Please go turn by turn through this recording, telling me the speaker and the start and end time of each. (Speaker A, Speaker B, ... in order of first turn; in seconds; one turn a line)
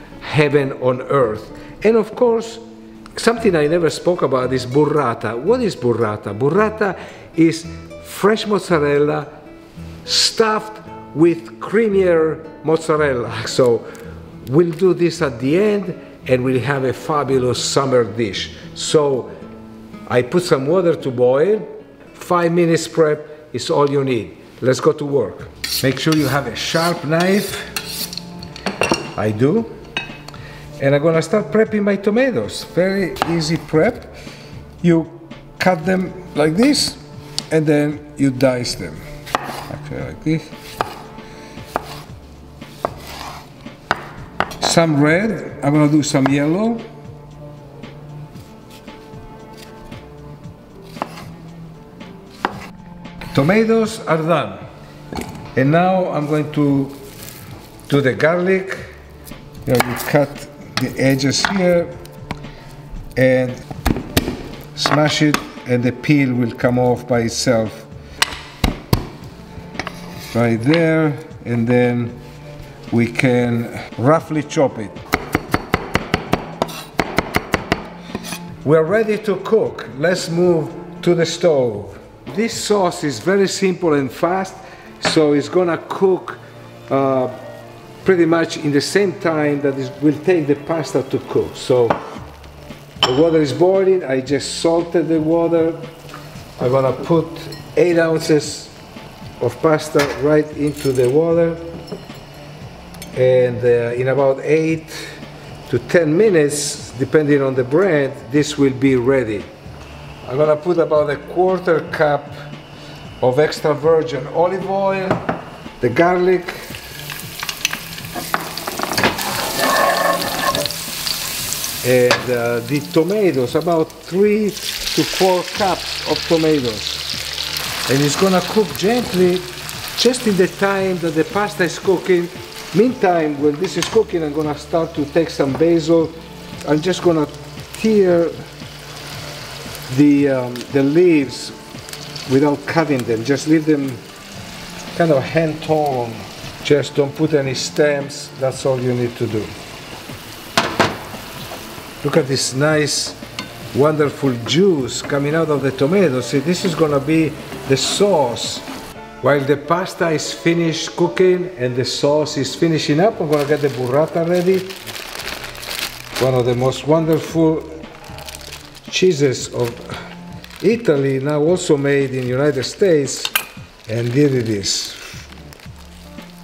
Speaker A: 0.2-2.6
Speaker A: 3.1-9.3
Speaker A: 10.1-13.8
Speaker A: 14.4-19.3
Speaker A: 20.1-27.7
Speaker A: 29.1-29.7
Speaker A: 30.8-34.1
Speaker A: 34.8-39.0
Speaker A: 39.7-40.5
Speaker A: 44.6-46.8
Speaker A: 53.3-54.6
Speaker A: 55.5-57.0
Speaker A: 57.9-58.8
Speaker A: 59.6-61.9
Speaker A: 63.1-63.6
Speaker A: 64.8-67.9
Speaker A: 70.3-72.2
Speaker A: 72.9-75.0
Speaker A: 78.6-87.4
Speaker A: 88.0-92.0
Speaker A: 93.0-95.8
Speaker A: 96.6-98.7
Speaker A: 99.4-101.6
Speaker A: 103.1-105.2
Speaker A: 105.7-109.5
Speaker A: 110.2-112.3
Speaker A: 113.2-115.2
Speaker A: 115.8-116.7
Speaker A: 121.8-127.1
Speaker A: 127.9-136.1
Speaker A: 136.7-138.4
Speaker A: 139.9-141.6
Speaker A: 142.3-144.0
Speaker A: 144.9-149.5
Speaker A: 152.0-153.2
Speaker A: 153.7-158.7
Speaker A: 159.2-164.8
Speaker A: 166.2-167.7
Speaker A: 168.8-169.9
Speaker A: 170.6-173.3
Speaker A: 173.9-175.0